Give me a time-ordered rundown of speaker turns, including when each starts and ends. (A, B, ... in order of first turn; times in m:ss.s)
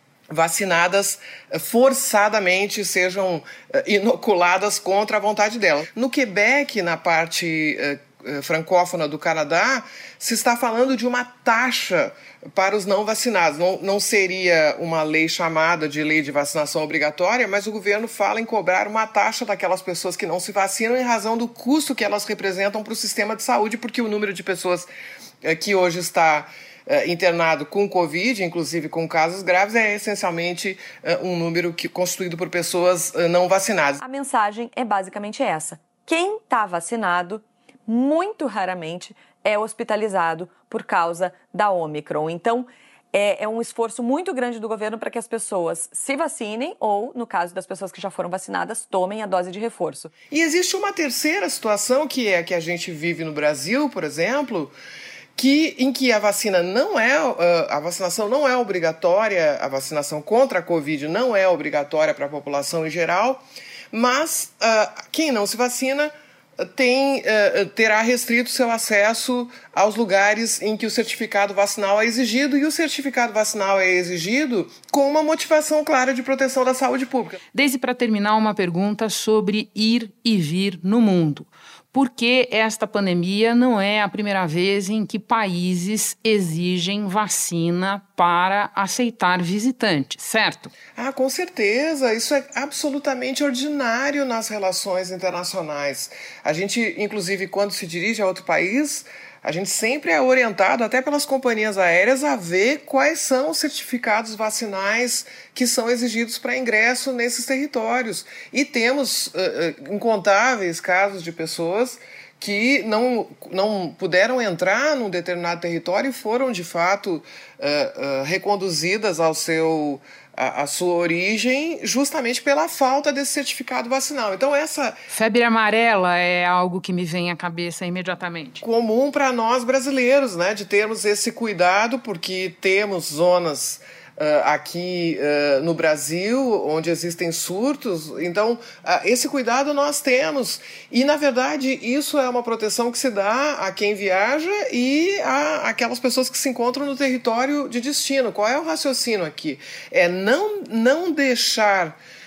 0:00.3-0:24.9 A
0:25.4-0:34.0 A
0:34.0-0:50.1 B
0:50.3-0:54.7 A
0:55.4-1:17.4 A
1:17.5-1:30.7 C
1:31.0-2:05.0 A
2:05.1-2:08.6 C
2:08.6-2:32.0 A